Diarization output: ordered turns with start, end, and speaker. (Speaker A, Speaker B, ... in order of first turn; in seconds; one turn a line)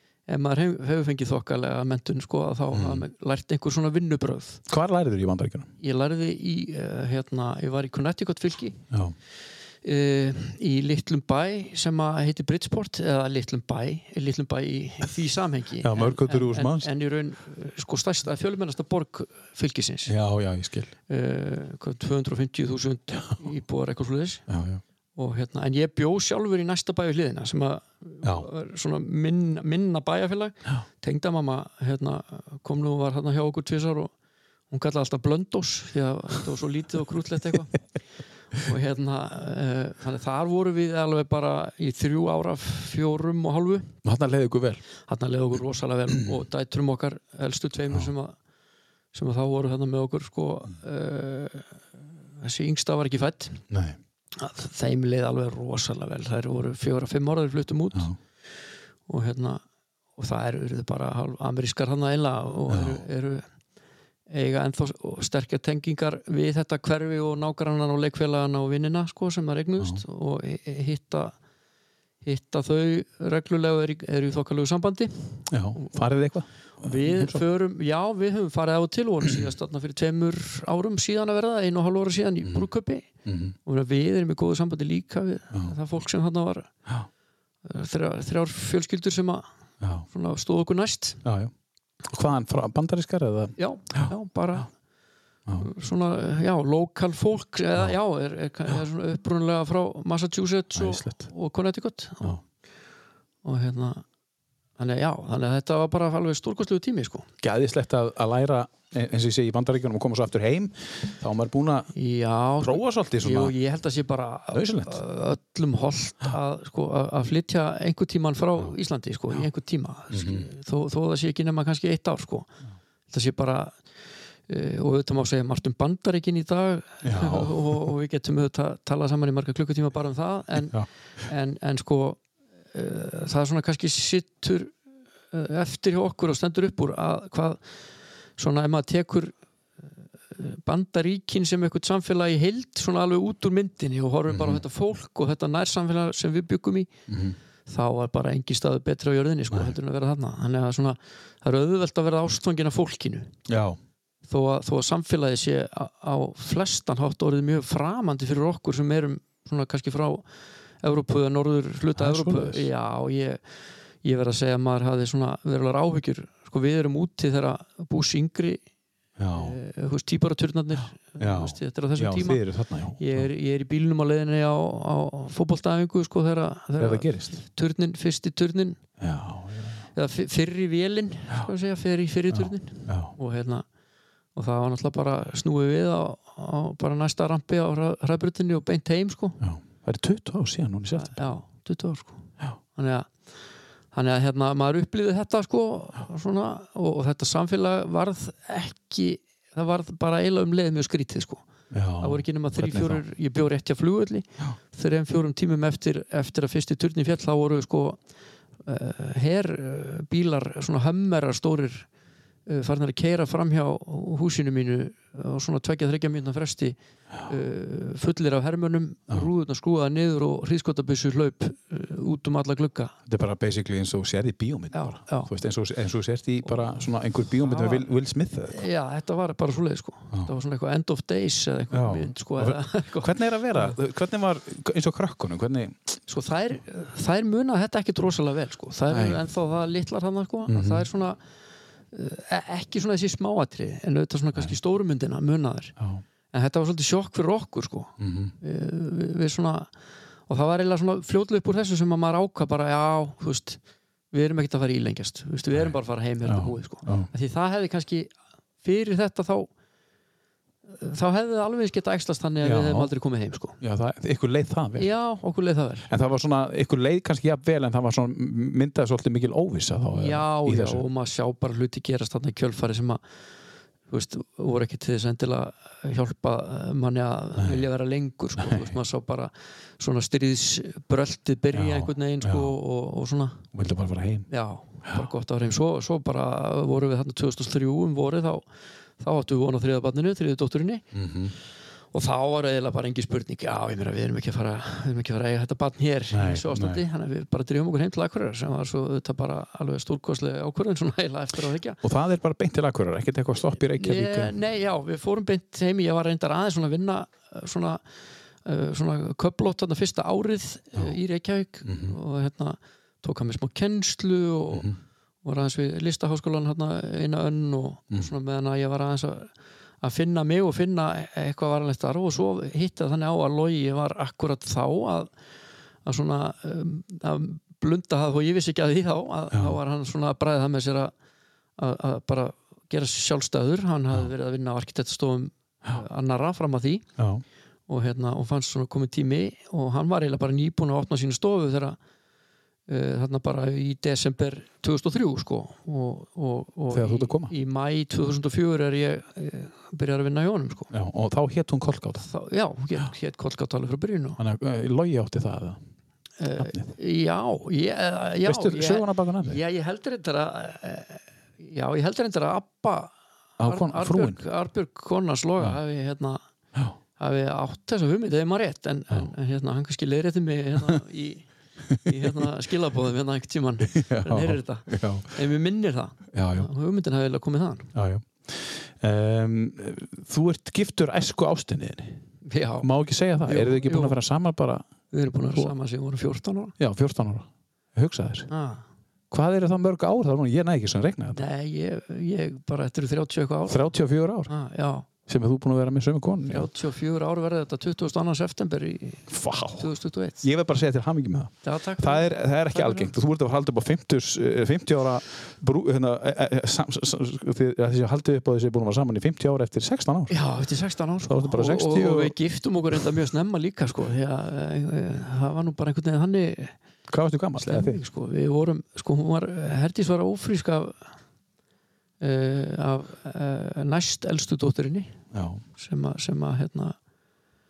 Speaker A: 0.3-4.6
Speaker B: 2.7-3.0
Speaker B: 4.7-5.7
Speaker A: 5.8-8.8
Speaker B: 8.9-9.2
Speaker A: 9.8-20.1
Speaker B: 15.8-16.9
Speaker B: 20.1-20.9
Speaker A: 21.1-24.4
Speaker B: 24.5-24.8
Speaker A: 25.1-34.1
Speaker B: 28.2-28.5
Speaker A: 34.7-37.8
Speaker A: 38.6-43.9
Speaker B: 44.0-44.8
Speaker A: 45.1-48.3
Speaker A: 49.1-51.8
Speaker A: 52.4-53.6
Speaker B: 53.7-54.0
Speaker A: 54.3-58.1
Speaker A: 59.1-59.6
Speaker A: 60.2-63.4
Speaker B: 62.7-63.0
Speaker A: 64.3-71.3
Speaker A: 72.2-75.9
Speaker B: 75.5-77.4
Speaker A: 76.8-83.1
Speaker B: 83.2-83.5
Speaker A: 83.6-86.7
Speaker A: 87.6-89.5
Speaker B: 89.8-90.0
Speaker A: 90.0-91.2
Speaker B: 91.2-91.5
Speaker B: 92.0-94.1
Speaker A: 93.6-94.7
Speaker A: 95.6-102.4
Speaker B: 100.7-101.3
Speaker A: 103.4-104.0
Speaker A: 104.8-107.3
Speaker B: 107.4-111.9
Speaker A: 111.9-122.5
Speaker B: 112.6-113.5
Speaker B: 114.5-115.0
Speaker B: 120.1-120.5
Speaker A: 123.1-123.7
Speaker A: 124.5-132.2
Speaker B: 127.0-127.9
Speaker A: 132.7-134.7
Speaker A: 135.3-137.6
Speaker A: 138.4-139.3
Speaker A: 140.3-146.9
Speaker B: 144.3-144.6
Speaker B: 147.1-147.3
Speaker A: 147.7-153.3
Speaker B: 153.5-153.8
Speaker A: 154.2-160.2
Speaker A: 160.8-163.4
Speaker B: 161.9-162.7
Speaker A: 164.0-168.6
Speaker B: 169.2-169.5
Speaker A: 169.3-172.4
Speaker B: 171.2-173.3
Speaker A: 173.0-178.8
Speaker B: 176.8-177.4
Speaker B: 179.0-179.8
Speaker A: 179.9-183.6
Speaker B: 182.3-183.1
Speaker A: 184.3-189.4
Speaker B: 189.4-191.3
Speaker A: 190.9-192.2
Speaker A: 192.7-193.1
Speaker A: 193.9-201.4
Speaker B: 201.7-203.0
Speaker A: 202.0-208.0
Speaker A: 208.6-211.9
Speaker A: 212.5-222.9
Speaker B: 223.1-228.6
Speaker A: 224.7-225.3
Speaker A: 227.4-227.9
Speaker A: 228.5-233.8
Speaker B: 231.7-235.8
Speaker A: 236.1-241.2
Speaker B: 238.9-239.2
Speaker B: 240.5-240.9
Speaker A: 241.9-245.8
Speaker A: 246.3-249.7
Speaker B: 248.0-248.3
Speaker A: 250.3-253.6
Speaker A: 254.1-258.1
Speaker B: 255.5-257.1
Speaker A: 258.6-259.5
Speaker A: 260.7-263.6
Speaker B: 262.4-262.9
Speaker B: 263.6-264.9
Speaker A: 264.8-265.9
Speaker B: 265.9-270.8
Speaker A: 269.9-273.0
Speaker A: 273.9-283.5
Speaker B: 277.4-277.6
Speaker B: 278.4-278.7
Speaker B: 281.5-282.5
Speaker B: 283.5-284.3
Speaker A: 284.3-288.4
Speaker A: 289.0-290.8
Speaker B: 290.9-291.3
Speaker A: 291.9-301.8
Speaker B: 296.1-296.8
Speaker B: 301.8-304.4
Speaker A: 303.7-307.8
Speaker A: 308.4-314.7
Speaker B: 311.6-311.9
Speaker B: 314.5-314.8
Speaker A: 315.2-319.3
Speaker A: 319.8-325.1
Speaker A: 325.8-330.9
Speaker B: 329.3-329.6
Speaker A: 331.6-336.9
Speaker B: 337.0-337.2
Speaker A: 337.7-341.8
Speaker A: 342.7-350.7
Speaker B: 346.7-347.3
Speaker B: 350.7-352.1
Speaker A: 352.0-354.2
Speaker B: 354.2-355.6
Speaker A: 356.2-366.2
Speaker B: 356.4-356.7
Speaker B: 358.2-359.4
Speaker B: 363.4-364.2
Speaker A: 367.0-377.7
Speaker B: 373.7-375.1
Speaker B: 376.1-376.5
Speaker B: 377.7-382.0
Speaker A: 382.2-382.7
Speaker B: 382.6-384.6
Speaker A: 383.2-384.0
Speaker A: 384.9-386.6
Speaker B: 386.6-388.3
Speaker A: 388.3-388.6
Speaker B: 389.1-391.2
Speaker A: 391.1-393.7
Speaker B: 393.5-394.3
Speaker A: 394.3-394.9
Speaker B: 395.1-396.5
Speaker A: 396.2-400.2
Speaker B: 399.1-399.7
Speaker B: 400.2-410.1
Speaker A: 401.4-402.9
Speaker A: 410.1-416.5
Speaker B: 411.1-412.1
Speaker B: 416.9-417.8
Speaker A: 417.4-420.9
Speaker A: 422.0-425.0
Speaker B: 425.1-425.4
Speaker A: 425.6-426.8